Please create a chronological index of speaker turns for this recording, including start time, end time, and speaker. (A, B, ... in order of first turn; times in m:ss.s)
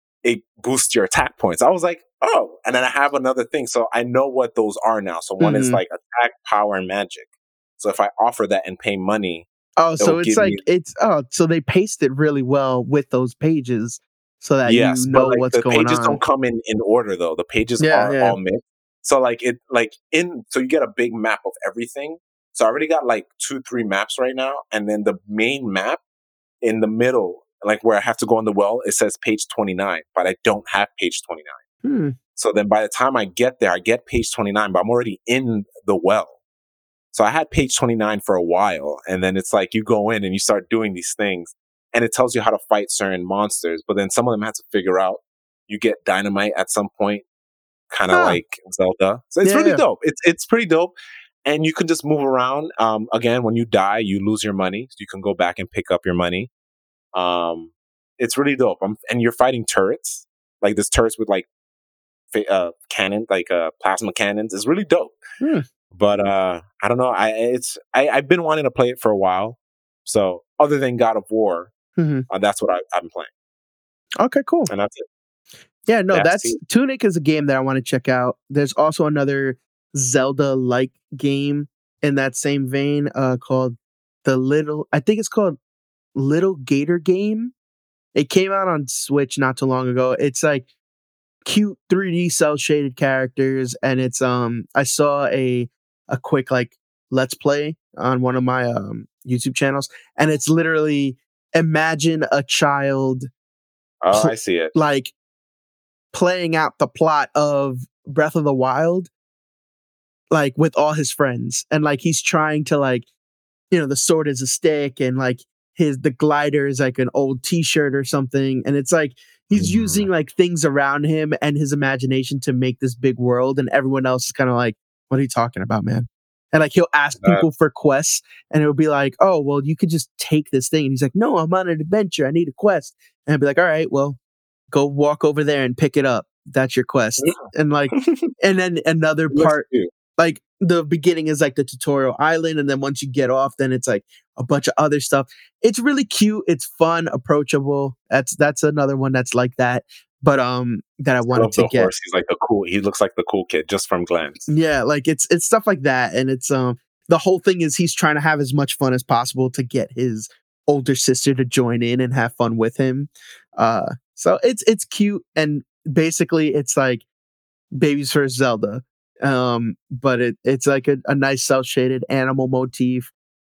0:00.2-0:09.5 A
0:05.4-0:05.8 B
0:09.8-0:16.2 B
0:10.0-0:10.6 A
0:14.6-0:26.0 A
0:17.8-0:18.4 B
0:26.6-0:31.6 A
0:31.8-0:32.2 B
0:32.4-0:36.4 A
0:37.1-0:47.2 A
0:47.9-0:50.9 A
0:48.1-0:48.4 B
0:49.4-0:49.8 B
0:51.4-0:56.5 A
0:57.2-1:01.5 A
1:02.3-1:05.2 A
1:05.9-1:11.7 A
1:12.0-1:12.3 B
1:12.3-1:13.3 A
1:14.2-1:14.7 B
1:14.7-1:15.1 A
1:15.9-1:25.6 B
1:16.1-1:16.6 A
1:26.2-1:27.5 B
1:28.2-1:30.7 B
1:31.4-1:43.3 B
1:44.0-1:44.7 A
1:44.1-1:45.1 B
1:46.1-1:49.1 B
1:50.3-1:53.1 B
1:53.7-2:14.2 B
1:59.5-2:00.1 A
2:14.7-2:19.7 B
2:17.2-2:18.3 A
2:19.3-2:19.9 A
2:20.2-2:31.9 B
2:31.3-2:34.5 A
2:34.5-2:47.0 B
2:47.8-2:53.1 B